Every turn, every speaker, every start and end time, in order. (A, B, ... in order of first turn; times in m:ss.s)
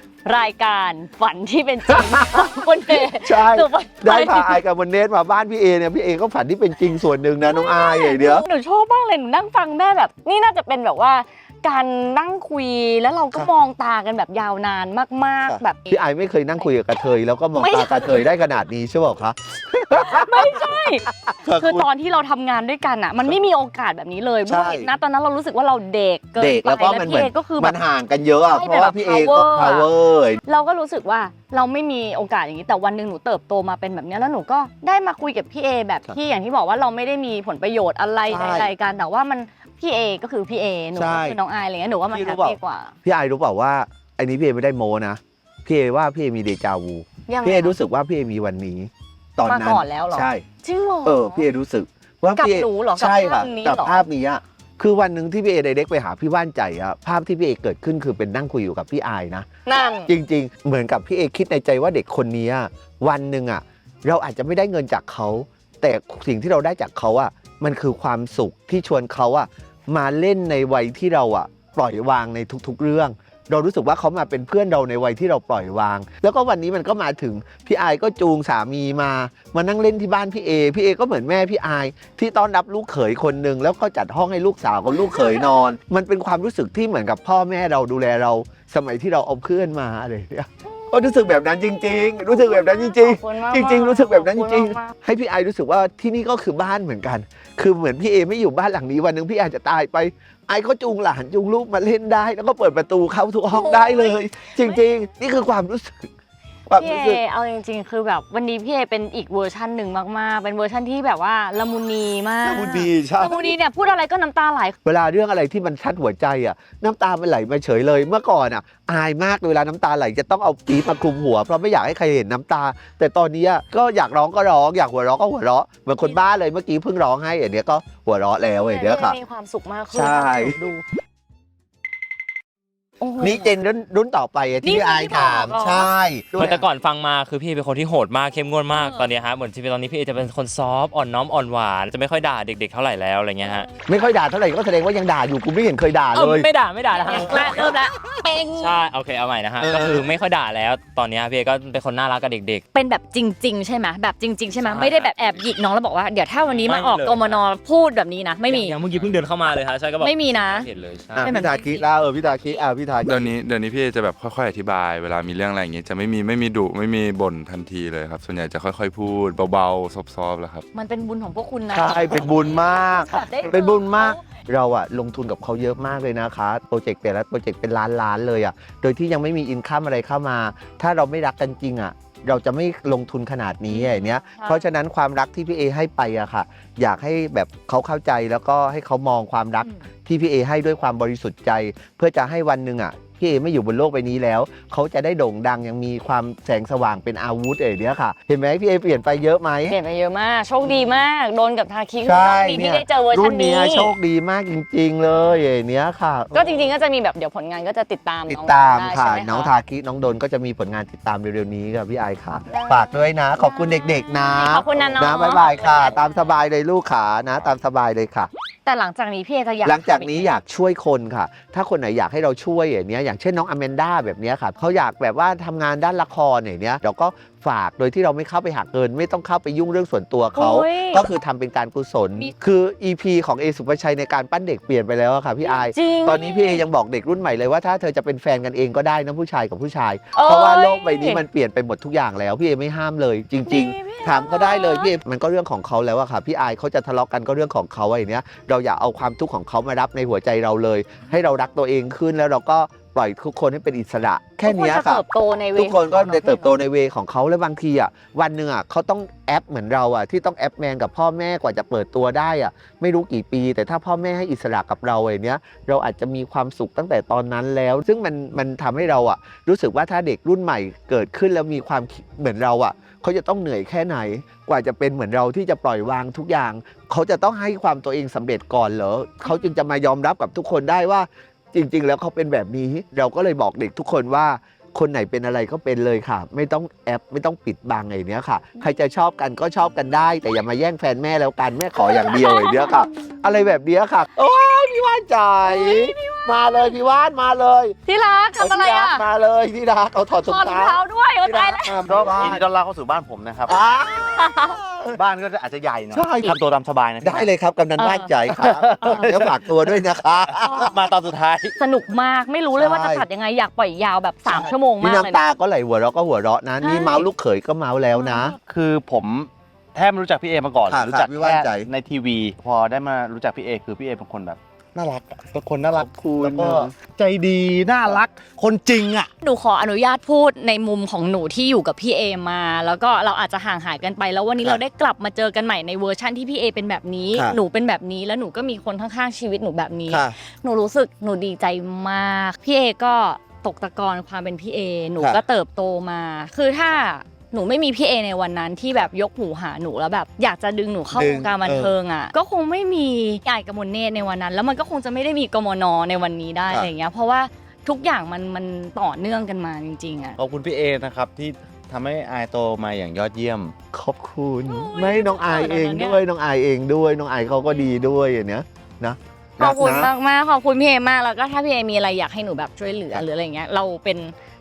0:00.2-0:04.6 A
0:01.9-0:08.4 B
0:07.4-0:16.0 A
0:15.5-0:21.9 B
0:17.6-0:18.2 A
0:20.0-0:27.8 A
0:24.4-0:24.9 B
0:26.4-0:30.4 B
0:28.5-0:29.9 A
0:30.4-0:42.9 A
0:38.3-0:38.7 B
0:40.9-0:41.4 B
0:42.1-0:50.4 B
0:47.3-0:47.7 A
0:49.4-0:51.4 A
0:51.0-0:59.4 B
0:52.4-0:54.1 A
0:59.6-1:00.1 A
1:00.1-1:46.1 B
1:24.9-1:25.4 A
1:30.7-1:35.0 A
1:43.5-1:44.8 A
1:46.7-1:47.2 B
1:46.8-1:54.8 A
1:52.4-1:53.5 B
1:54.8-2:09.2 B
2:08.6-2:10.8 A
2:09.9-2:10.6 B
2:13.0-2:13.5 A
2:13.2-2:16.6 B
2:14.6-2:15.9 A
2:16.4-2:23.7 C
2:18.7-2:19.1 A
2:23.9-2:26.5 B
2:26.1-2:27.8 C
2:26.9-2:28.7 A
2:28.4-2:32.6 C
2:32.7-2:38.8 A
2:34.6-2:35.1 C
2:36.5-2:37.4 C
2:38.4-2:41.3 C
2:40.0-2:40.7 A
2:41.2-2:43.3 B
2:41.2-2:41.8 A
2:43.0-2:50.6 D
2:50.7-2:54.2 A
2:51.7-3:19.8 B
3:03.7-3:04.7 A
3:19.7-3:23.9 A
3:22.0-3:26.3 B
3:26.3-3:29.5 A
3:28.3-3:38.3 B
3:32.5-3:36.3 A
3:38.6-3:40.4 A
3:39.6-4:15.0 B
3:50.3-3:51.1 A
3:55.4-3:56.6 A
4:00.1-4:01.2 A
4:03.4-4:04.9 A
4:14.4-4:16.6 A
4:15.6-4:57.8 B
4:51.8-4:52.9 A
4:55.4-4:56.2 A
4:57.8-4:59.0 A
4:58.4-5:02.4 B
5:00.2-5:01.8 A
5:01.6-5:03.5 E
5:03.5-5:05.0 B
5:04.0-5:04.6 A
5:04.9-5:07.3 E
5:05.9-5:06.4 B
5:07.0-5:10.7 B
5:07.8-5:08.1 A
5:08.3-5:09.2 E
5:08.8-5:09.3 A
5:10.4-5:11.6 E
5:11.6-5:15.2 A
5:12.6-5:13.0 B
5:14.3-5:18.4 B
5:16.6-5:17.1 A
5:18.0-5:18.3 A
5:18.4-5:29.1 E
5:20.7-5:21.7 B
5:25.7-5:26.7 B
5:29.2-6:00.2 A
5:37.1-5:37.4 B
5:39.9-5:40.2 B
5:50.9-5:51.7 B
6:00.2-6:03.5 E
6:03.7-6:09.9 B
6:04.4-6:06.0 A
6:09.4-6:14.1 A